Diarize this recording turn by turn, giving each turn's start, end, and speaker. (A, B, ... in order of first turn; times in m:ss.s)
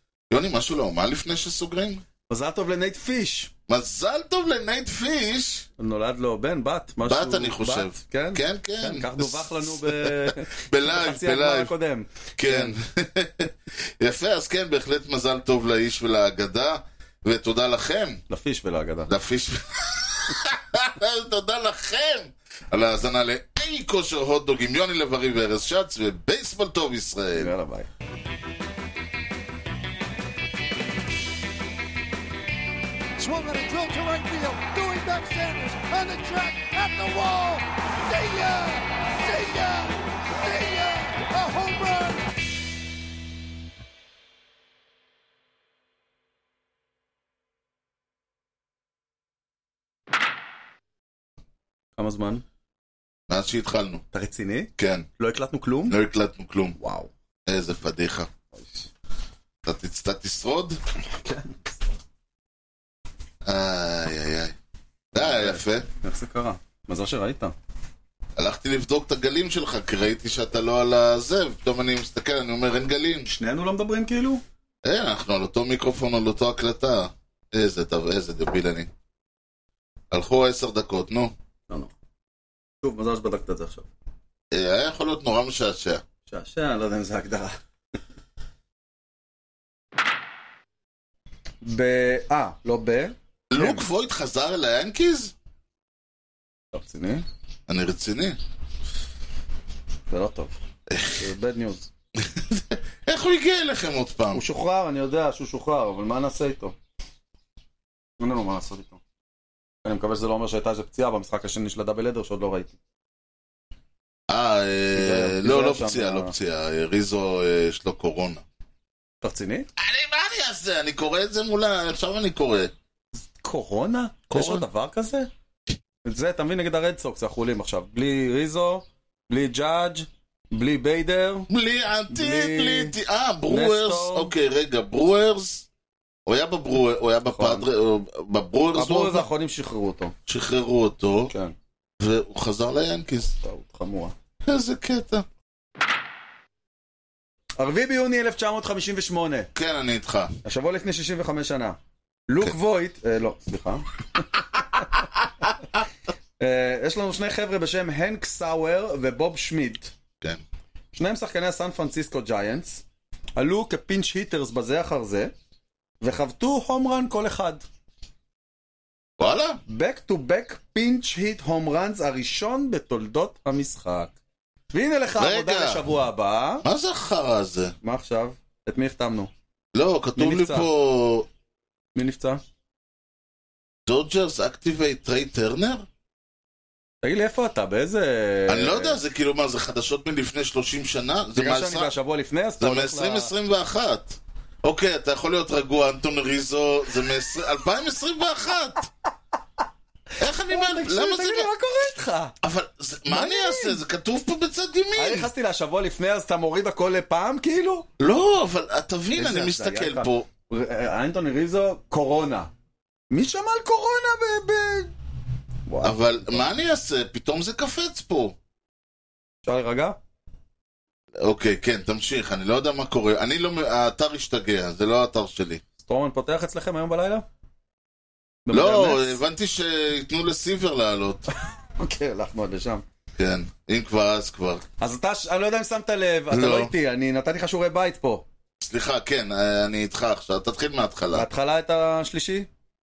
0:00.3-0:02.0 A
0:02.3-0:03.5 B
0:03.7-0:05.7 A
0:05.8-0:12.8 B
0:07.1-0:11.7 A
0:12.4-0:18.2 A
0:18.3-0:19.1 B
0:19.1-0:27.5 A
0:27.4-0:27.9 B
0:33.2-0:42.3 C
0:52.0-0:52.4 B
0:53.3-0:54.0 A
0:54.1-0:56.0 B
0:54.8-0:55.1 A
0:55.9-0:56.8 A
0:56.8-0:57.1 B
0:57.5-0:58.3 A
0:58.5-0:58.9 B
0:59.6-1:00.8 A
1:01.1-1:01.7 B
1:03.4-1:04.6 A
1:05.1-1:05.9 A
1:05.2-1:07.6 B
1:08.4-1:13.3 A
1:13.3-1:14.4 B
1:14.8-1:18.9 A
1:20.1-1:21.3 A
1:22.8-1:23.9 B
1:24.5-1:26.0 A
1:26.3-1:27.6 B
1:31.6-1:33.9 B
1:33.5-1:35.3 A
1:36.7-1:37.3 B
1:37.7-1:38.4 A
1:40.1-1:40.6 B
1:40.9-1:41.2 A
1:41.2-1:41.9 B
1:42.2-1:44.4 A
1:44.3-1:46.8 B
1:48.2-1:49.0 B
1:49.8-1:52.8 B
1:54.3-1:58.4 A
1:55.0-1:56.3 B
1:59.2-1:59.7 B
1:59.8-2:02.7 A
2:03.4-2:05.3 B
2:04.3-2:04.6 A
2:06.0-2:11.5 B
2:11.5-2:15.7 A
2:12.1-2:13.0 B
2:13.5-2:14.3 B
2:16.3-2:19.3 A
2:17.3-2:17.6 B
2:18.7-2:20.1 B
2:20.3-2:21.3 A
2:21.3-2:21.5 B
2:22.0-2:23.4 A
2:23.4-2:24.1 B
2:24.4-2:25.2 A
2:27.6-2:29.5 B
2:29.6-2:30.4 A
2:30.4-2:31.8 B
2:32.3-2:34.3 B
2:36.4-2:39.9 B
2:40.9-2:42.8 B
2:43.4-2:45.3 B
2:46.0-2:47.6 B
2:49.2-2:49.6 A
2:49.7-2:54.2 B
2:54.7-2:56.6 B
2:55.2-2:55.9 A
2:56.6-2:57.8 A
2:57.8-2:59.3 B
2:59.7-3:01.3 A
3:00.2-3:00.7 B
3:02.0-3:02.4 B
3:03.9-3:05.9 A
3:07.0-3:09.0 B
3:08.5-3:11.9 A
3:11.4-3:13.3 B
3:12.6-3:18.9 A
3:20.2-3:21.5 A
3:20.5-3:22.4 B
3:22.4-3:25.3 A
3:23.1-3:23.8 B
3:25.0-3:27.9 B
3:28.0-3:30.3 A
3:29.2-3:32.5 B
3:33.1-3:34.9 B
3:35.7-3:36.4 B
3:35.8-3:38.4 A
3:39.4-3:40.0 B
3:41.2-3:45.6 A
3:45.8-3:47.2 B
3:48.5-3:49.2 B
3:48.5-3:51.3 A
3:51.8-3:52.8 B
3:53.2-3:54.6 A
3:54.8-3:58.2 B
3:56.3-3:56.7 A
3:58.6-4:01.3 A
4:01.1-4:02.5 B